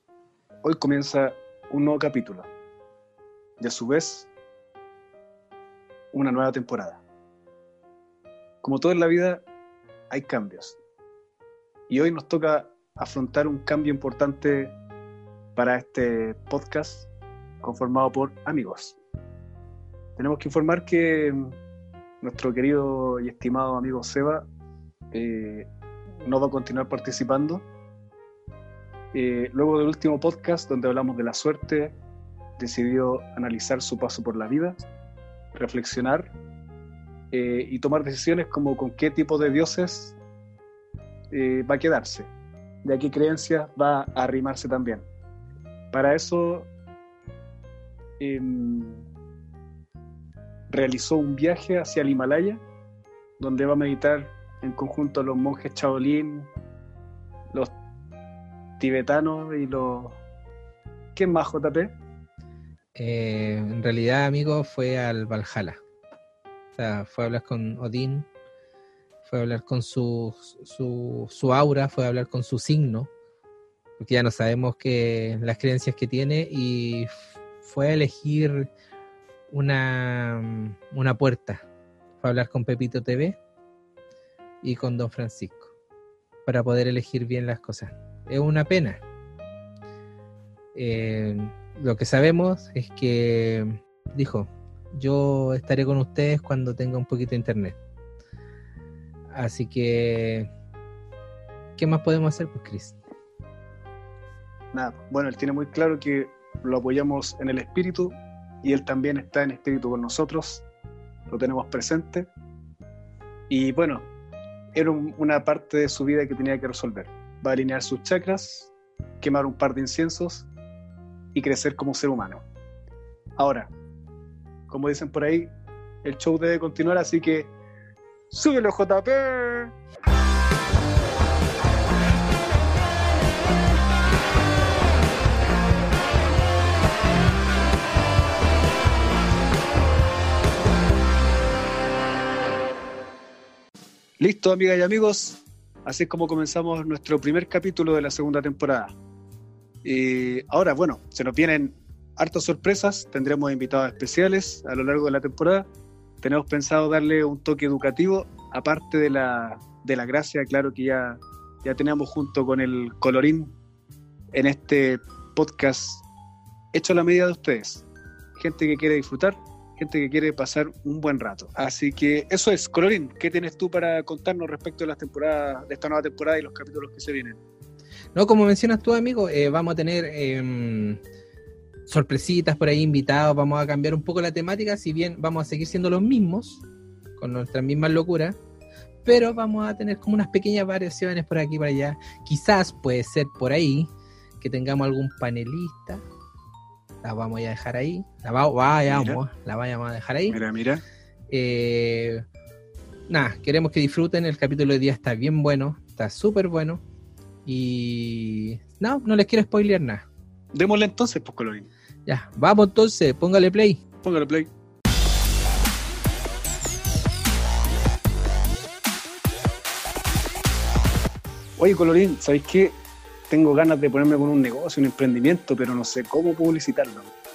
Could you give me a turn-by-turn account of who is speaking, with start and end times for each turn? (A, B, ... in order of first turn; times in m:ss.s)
0:00.6-0:02.5 A
0:03.6-0:04.3 A
0:06.1-0:07.0 A
0:08.6-0:09.4 A
0:10.1-0:10.8 A
0:11.9-0:14.7 A
0:15.6-0:17.1 A
0:17.6-0:19.0 A
0:20.2-0:21.5 A
0:22.2-0:24.4 A
0:25.1-0:25.7 A
0:26.2-0:27.6 A
0:29.1-0:31.9 A
0:32.6-0:34.8 A
0:35.5-0:36.3 A
0:37.3-0:40.2 A
0:41.3-0:42.3 A
0:42.8-0:45.0 A
0:45.9-0:46.7 A
0:48.2-0:49.0 A
0:50.7-0:52.6 A
0:53.4-0:56.5 A
0:58.8-1:00.2 A
1:01.1-1:01.9 A
1:03.0-1:05.8 B
1:06.8-1:08.3 B
1:09.2-1:13.1 B
1:14.0-1:18.7 B
1:19.5-1:21.6 B
1:22.2-1:23.4 B
1:24.6-1:25.7 B
1:26.4-1:29.0 B
1:30.7-1:37.8 B
1:39.3-1:40.5 B
1:41.8-1:43.0 B
1:44.7-1:50.6 A
1:51.3-1:52.3 A
1:53.5-1:54.1 A
1:54.7-2:00.5 A
2:01.3-2:02.4 A
2:03.4-2:03.7 A
2:04.7-2:05.5 A
2:06.0-2:07.5 A
2:08.3-2:09.7 A
2:24.2-2:28.9 A
2:29.8-2:35.7 A
2:36.2-2:43.5 A
2:44.3-2:46.0 A
2:46.7-2:47.8 A
2:48.4-2:57.4 A
2:58.1-3:01.0 B
3:01.9-3:06.6 B
3:07.2-3:08.4 B
3:09.0-3:16.0 B
3:17.0-3:20.4 B
3:18.9-3:19.2 A
3:20.3-3:20.8 A
3:21.3-3:22.2 B
3:23.1-3:26.8 B
3:27.4-3:30.0 B
3:30.5-3:31.7 A
3:32.0-3:33.8 B
3:34.0-3:34.5 A
3:41.6-3:42.8 A
3:43.3-3:47.1 A